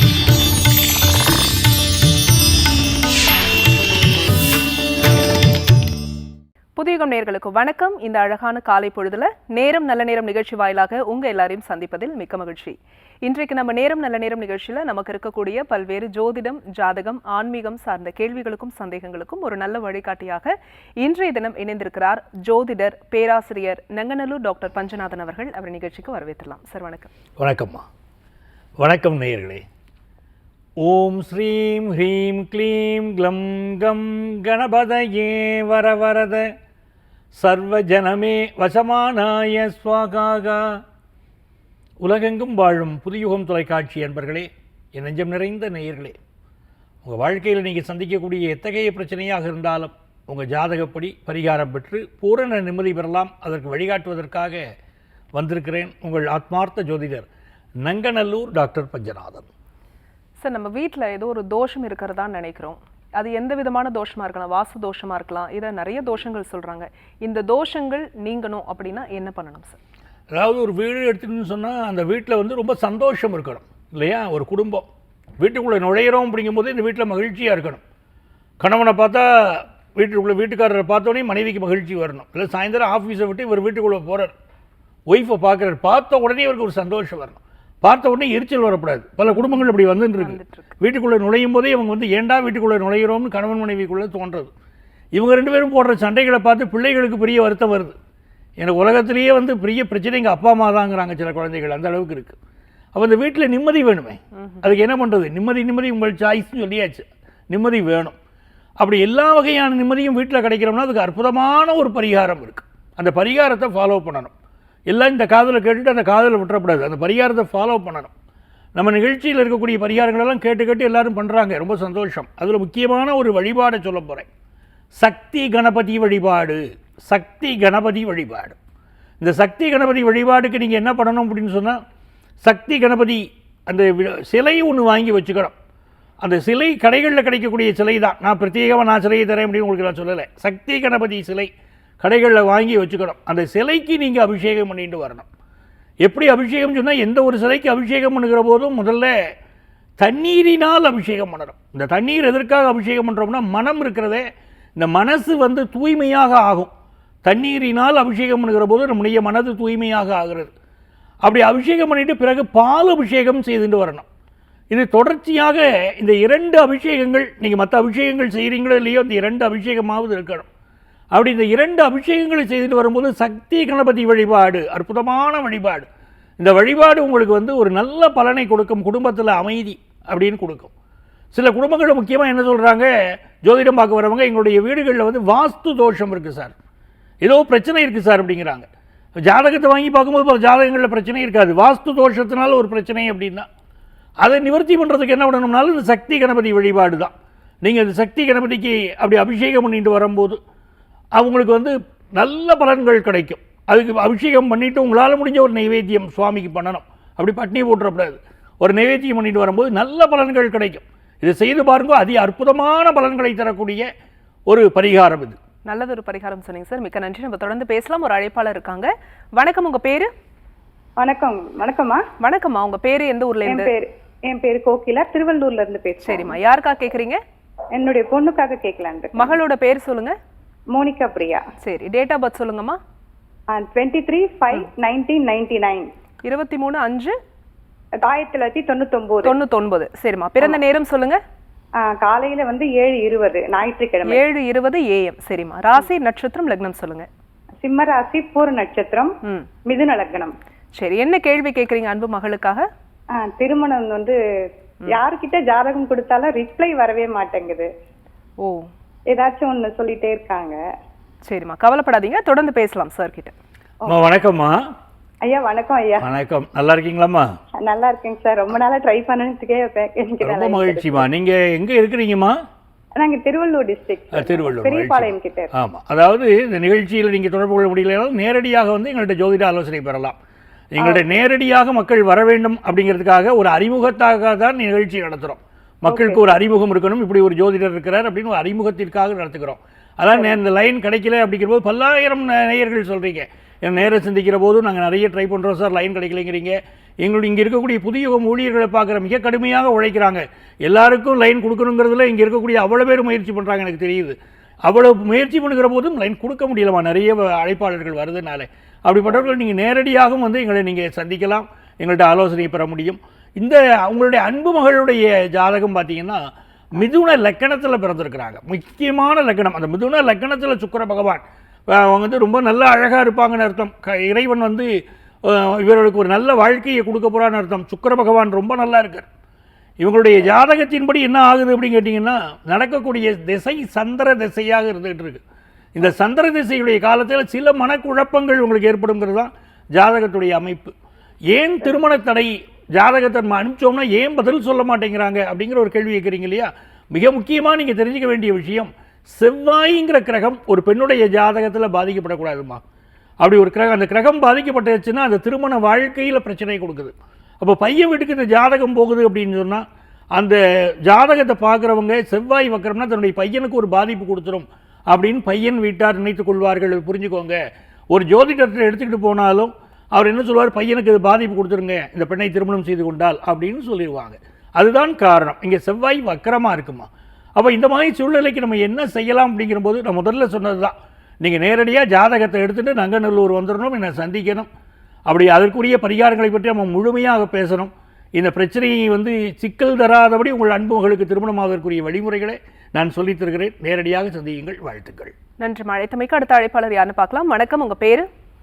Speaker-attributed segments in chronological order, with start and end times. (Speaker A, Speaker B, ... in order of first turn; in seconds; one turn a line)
Speaker A: 6.8-27.1
Speaker B: 27.4-27.8
Speaker B: 28.8-29.6
Speaker B: 30.8-36.5
Speaker B: 37.4-40.8
Speaker B: 42.0-46.1
Speaker B: 47.0-54.6
Speaker B: 55.4-57.2
Speaker B: 57.8-59.5
Speaker A: 60.4-69.8
Speaker B: 70.3-74.9
Speaker B: 75.4-77.8
Speaker B: 78.6-84.3
Speaker B: 85.1-94.5
Speaker A: 89.3-90.8
Speaker B: 95.1-98.0
Speaker B: 98.6-102.4
Speaker B: 102.9-108.1
Speaker B: 108.8-114.3
Speaker B: 114.9-118.1
Speaker B: 118.7-124.3
Speaker B: 125.0-128.6
Speaker B: 129.2-131.8
Speaker B: 132.4-135.5
Speaker B: 136.2-141.5
Speaker B: 142.0-145.3
Speaker B: 146.0-149.1
Speaker B: 150.0-154.2
Speaker B: 154.8-156.7
Speaker B: 157.2-160.5
Speaker B: 161.2-164.1
Speaker B: 164.7-170.5
Speaker B: 171.1-175.9
Speaker B: 176.4-180.7
Speaker B: 181.3-182.9
Speaker B: 183.4-186.5
Speaker B: 187.2-188.7
Speaker B: 189.3-193.5
Speaker B: 194.2-200.4
Speaker B: 201.2-213.9
Speaker B: 214.5-215.4
Speaker A: 215.7-220.1
Speaker C: 221.0-222.0
Speaker A: 222.2-223.7
Speaker C: 223.4-226.4
Speaker A: 226.0-227.2
Speaker C: 227.7-229.4
Speaker A: 229.1-230.1
Speaker C: 230.7-231.4
Speaker A: 231.6-232.8
Speaker C: 233.5-235.9
Speaker A: 236.2-237.2
Speaker C: 238.0-239.4
Speaker A: 239.2-241.2
Speaker C: 241.8-244.2
Speaker A: 244.1-247.1
Speaker C: 247.6-249.1
Speaker C: 249.7-250.3
Speaker A: 250.8-252.7
Speaker C: 253.1-254.2
Speaker C: 254.9-257.7
Speaker A: 258.4-258.7
Speaker C: 259.1-260.6
Speaker A: 261.3-263.3
Speaker B: 263.9-264.6
Speaker C: 265.2-266.0
Speaker B: 266.0-267.3
Speaker C: 267.6-271.1
Speaker B: 270.2-272.4
Speaker C: 273.0-275.5
Speaker B: 274.1-280.1
Speaker B: 280.7-304.1
Speaker C: 285.9-286.2
Speaker B: 304.6-316.2
Speaker B: 316.7-324.7
Speaker B: 325.2-329.1
Speaker B: 329.8-335.2
Speaker B: 335.7-340.7
Speaker B: 341.3-352.6
Speaker B: 353.2-359.6
Speaker B: 360.1-367.4
Speaker B: 367.9-384.5
Speaker B: 385.1-395.1
Speaker A: 395.4-398.1